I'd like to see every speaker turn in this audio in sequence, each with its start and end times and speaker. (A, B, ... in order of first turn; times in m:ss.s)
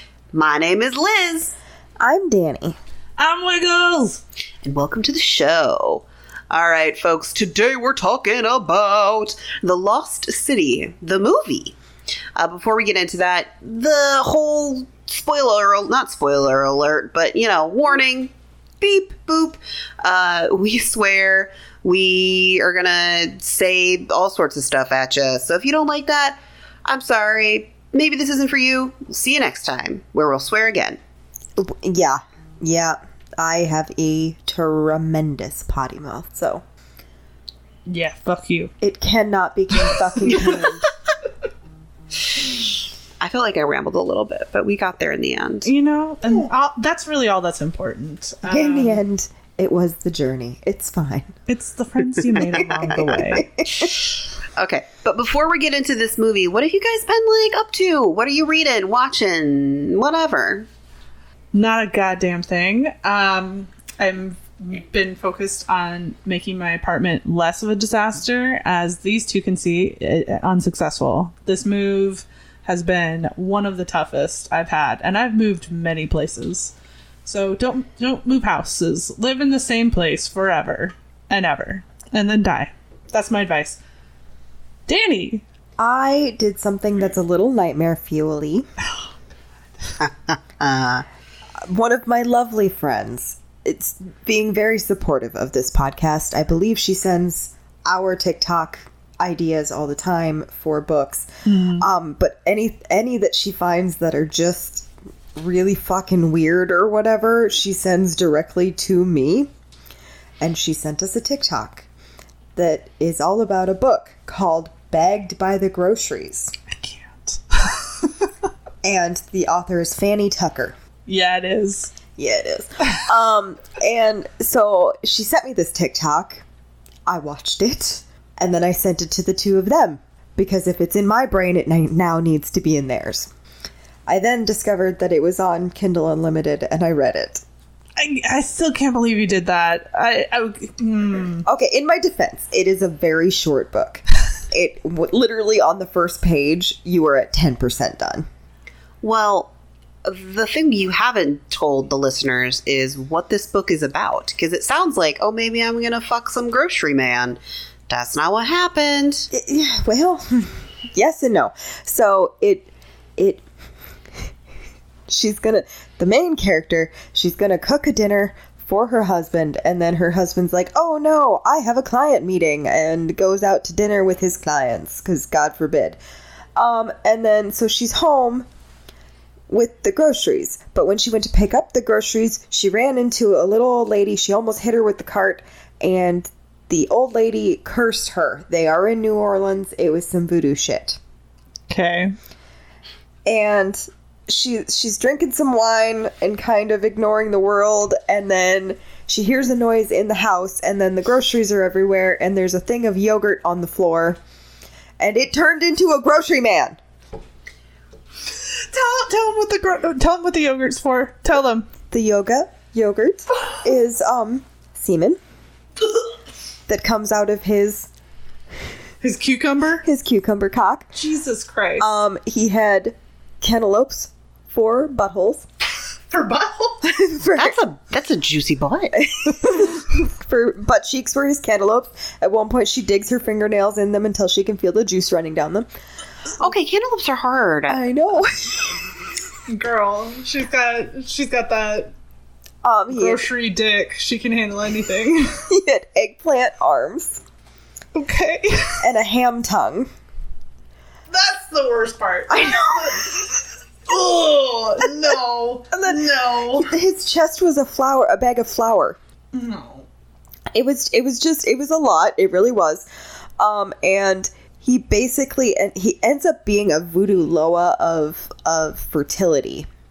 0:00.3-0:01.5 A
0:02.0-0:02.8 B
0:03.2-0:04.2 C
0:04.6-0:11.7 A
0:12.4-0:31.0 A
0:31.6-0:36.6 B
0:37.9-0:38.7 C
0:38.8-0:40.9 B
0:40.2-0:40.7 A
0:43.2-0:45.7 A
0:45.6-0:49.0 C
0:48.4-0:51.4 B
0:51.5-0:53.5 C
0:52.4-0:53.1 A
0:52.5-0:53.9 B
0:53.7-1:00.7 A
1:01.5-1:16.7 C
1:17.2-1:23.8 C
1:24.9-1:25.4 C
1:25.8-1:28.6 B
1:30.0-1:31.0 A
1:31.6-1:49.5 B
1:41.4-1:41.8 C
1:50.4-1:51.9 B
1:52.6-1:56.5 B
1:56.7-1:58.3 C
1:58.8-2:00.7 B
2:01.1-2:01.9 C
2:02.2-2:06.4 B
2:07.1-2:13.3 B
2:14.1-2:17.4 B
2:18.0-2:21.4 C
2:21.4-2:28.2 B
2:29.0-2:29.5 A
2:30.0-2:39.3 A
2:39.3-2:43.4 B
2:45.1-2:56.0 B
2:56.6-2:58.5 B
2:59.5-3:11.0 B
3:11.7-3:12.1 C
3:13.2-3:24.2 B
3:25.0-3:26.8 B
3:28.4-3:31.7 C
3:31.9-3:35.2 B
3:36.7-3:37.9 B
3:39.0-3:39.8 C
3:39.8-3:40.9 B
3:41.0-3:41.9 C
3:41.8-3:45.4 B
3:46.1-3:46.8 C
3:46.8-3:47.6 B
3:47.4-3:49.0 A
3:49.0-3:55.7 B
3:56.4-3:57.8 A
3:57.7-3:58.9 B
3:59.5-4:01.9 C
4:02.6-4:03.2 B
4:02.9-4:05.4 C
4:05.5-4:07.2 B
4:07.9-4:08.8 C
4:08.8-4:09.9 B
4:11.1-4:16.7 C
4:12.3-4:13.1 B
4:16.5-4:19.0 B
4:19.3-4:19.8 C
4:20.5-4:22.9 B
4:23.4-4:29.7 B